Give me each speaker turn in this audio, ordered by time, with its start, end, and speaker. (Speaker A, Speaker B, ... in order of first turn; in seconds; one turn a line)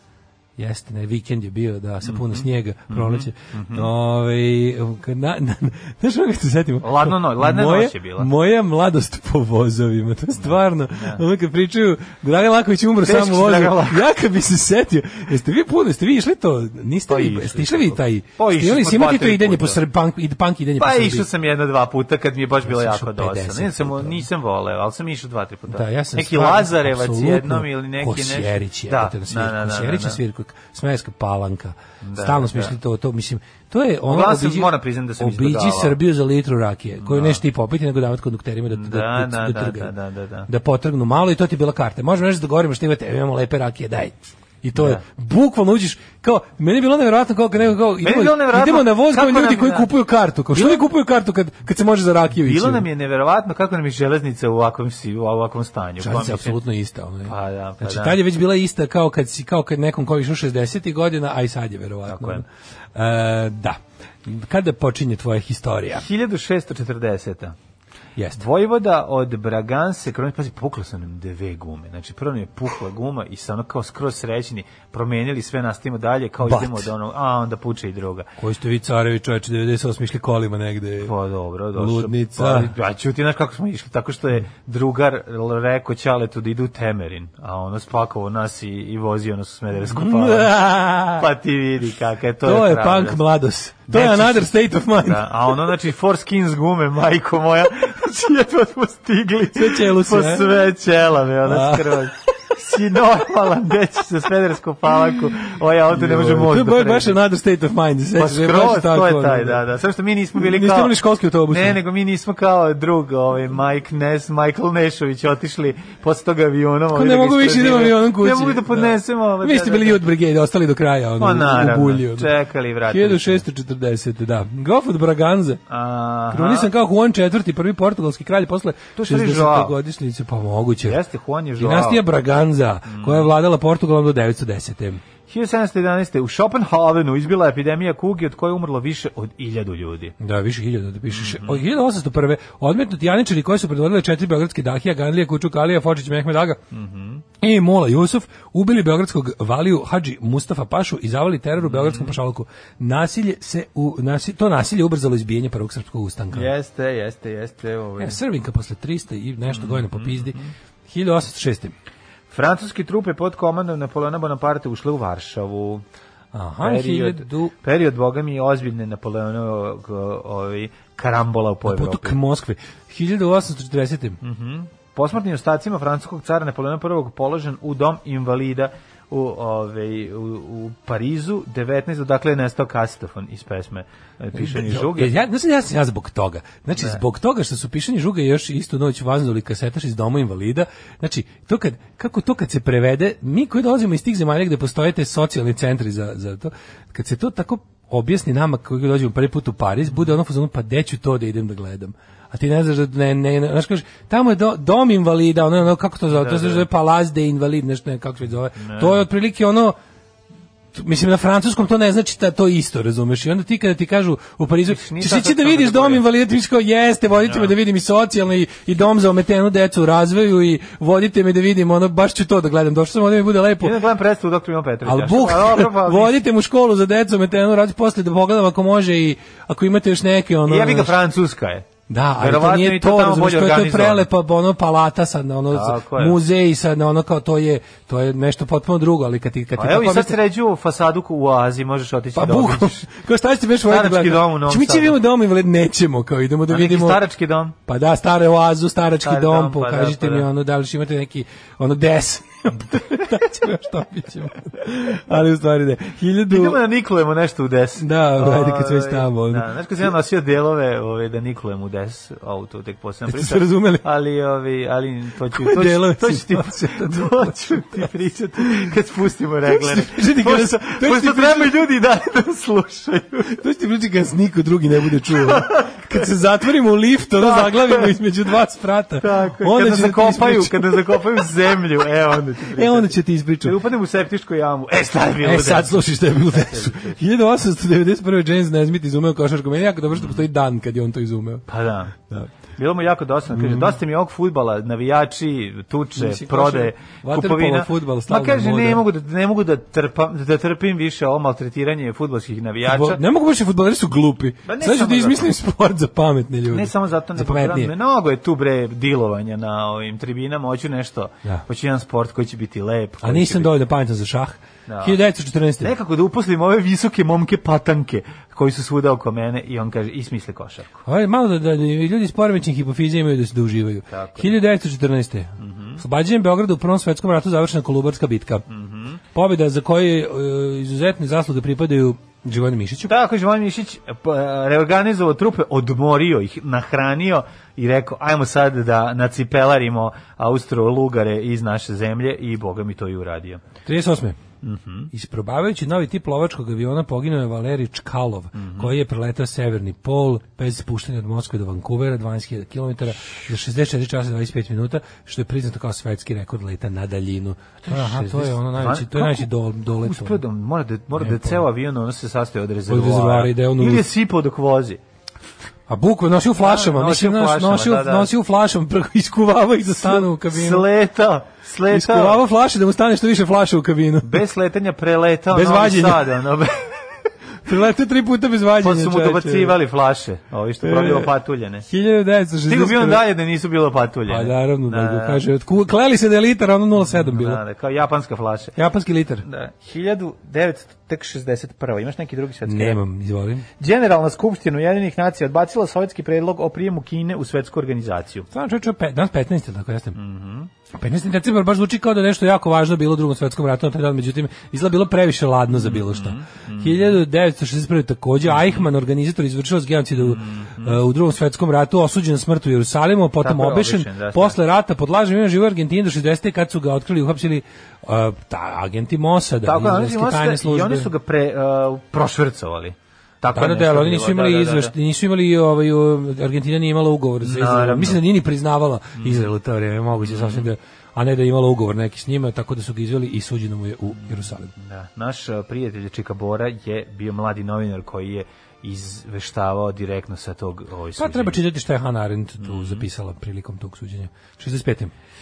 Speaker A: 0.6-21.3
Speaker B: 2.0-3.9
Speaker B: 6.8-8.3
Speaker B: 10.3-11.2
Speaker B: 13.0-14.0
Speaker B: 17.1-19.8
Speaker B: 20.8-30.2
Speaker A: 22.6-24.2
Speaker A: 25.7-39.9
Speaker B: 32.0-32.8
Speaker B: 34.1-36.0
Speaker B: 37.0-37.4
Speaker B: 38.7-40.5
Speaker A: 40.5-52.9
Speaker B: 44.8-45.0
Speaker B: 48.0-49.9
Speaker B: 50.5-50.9
Speaker B: 52.4-56.6
Speaker A: 56.0-66.1
Speaker B: 57.2-58.2
Speaker B: 62.0-62.4
Speaker B: 65.9-67.5
Speaker A: 68.2-68.4
Speaker B: 68.3-78.3
Speaker A: 76.4-76.9
Speaker A: 78.4-81.1
Speaker B: 81.0-93.2
Speaker A: 81.7-82.7
Speaker A: 89.8-91.3
Speaker A: 92.4-95.5
Speaker B: 93.9-107.2
Speaker A: 99.5-100.5
Speaker A: 101.4-102.2
Speaker A: 105.9-109.6
Speaker B: 108.2-111.0
Speaker A: 110.3-111.8
Speaker B: 111.5-120.0
Speaker A: 116.9-122.3
Speaker B: 121.2-123.4
Speaker A: 122.9-125.6
Speaker B: 125.7-126.7
Speaker A: 126.3-131.0
Speaker B: 128.9-129.7
Speaker B: 130.8-132.0
Speaker A: 131.6-135.0
Speaker B: 132.9-133.3
Speaker B: 135.3-140.1
Speaker A: 140.2-146.6
Speaker B: 141.1-141.6
Speaker B: 146.7-147.2
Speaker A: 147.4-156.5
Speaker B: 151.6-152.2
Speaker B: 156.3-158.2
Speaker A: 158.0-161.7
Speaker B: 159.5-160.5
Speaker B: 162.3-165.8
Speaker A: 166.3-167.5
Speaker B: 166.6-172.2
Speaker A: 171.6-174.2
Speaker B: 174.2-185.2
Speaker A: 184.3-209.8
Speaker B: 186.8-187.0
Speaker B: 206.1-206.7
Speaker B: 208.6-209.0
Speaker A: 210.7-223.8
Speaker B: 214.7-216.0
Speaker B: 217.2-217.5
Speaker B: 223.6-226.2
Speaker A: 224.8-230.9
Speaker B: 230.4-231.7
Speaker A: 231.9-240.2
Speaker B: 232.2-234.1
Speaker B: 235.5-236.2
Speaker B: 239.6-242.9
Speaker A: 242.1-247.0
Speaker B: 243.7-245.0
Speaker B: 246.5-247.6
Speaker A: 247.7-256.6
Speaker B: 249.0-250.3
Speaker B: 256.3-273.4
Speaker A: 257.8-259.9
Speaker A: 263.1-263.8
Speaker A: 265.3-267.9
Speaker A: 269.5-271.6
Speaker A: 273.2-281.3
Speaker B: 275.1-276.1
Speaker B: 277.2-278.0
Speaker B: 279.0-287.0
Speaker A: 282.5-283.6
Speaker A: 285.2-291.4
Speaker B: 289.9-290.2
Speaker B: 291.5-291.9
Speaker B: 292.6-303.0
Speaker A: 293.3-293.7
Speaker A: 295.9-298.8
Speaker A: 302.6-307.7
Speaker B: 304.4-305.3
Speaker B: 306.5-313.5
Speaker A: 313.0-315.7
Speaker B: 314.7-315.0
Speaker B: 315.6-320.8
Speaker A: 320.9-328.4
Speaker B: 323.9-324.3
Speaker B: 325.4-325.8
Speaker B: 328.5-329.0
Speaker A: 329.1-332.9
Speaker B: 332.9-343.4
Speaker A: 343.6-344.2
Speaker B: 344.4-344.9
Speaker A: 344.9-360.2
Speaker B: 348.3-348.7
Speaker B: 357.6-364.8
Speaker A: 361.0-361.4
Speaker A: 362.7-363.9
Speaker A: 365.7-370.7
Speaker B: 366.4-368.1
Speaker B: 369.7-372.2
Speaker A: 371.7-374.2
Speaker B: 374.0-376.8
Speaker A: 375.3-376.2
Speaker A: 377.4-379.6
Speaker B: 378.6-381.7
Speaker A: 380.6-381.1
Speaker A: 381.6-383.1
Speaker B: 382.5-385.2
Speaker A: 384.1-387.4
Speaker B: 386.8-388.6
Speaker A: 388.6-389.2
Speaker B: 389.2-392.8
Speaker A: 392.4-393.4
Speaker B: 393.6-398.3
Speaker A: 398.3-400.0
Speaker B: 399.9-400.5
Speaker A: 400.7-420.9
Speaker B: 405.5-407.0
Speaker B: 408.2-408.6
Speaker B: 410.0-410.8
Speaker B: 413.2-414.4
Speaker B: 419.4-424.7
Speaker A: 423.3-434.5
Speaker B: 427.2-428.0
Speaker B: 429.0-429.3
Speaker B: 429.9-430.5
Speaker B: 433.9-441.4
Speaker A: 440.9-444.9
Speaker B: 442.4-442.9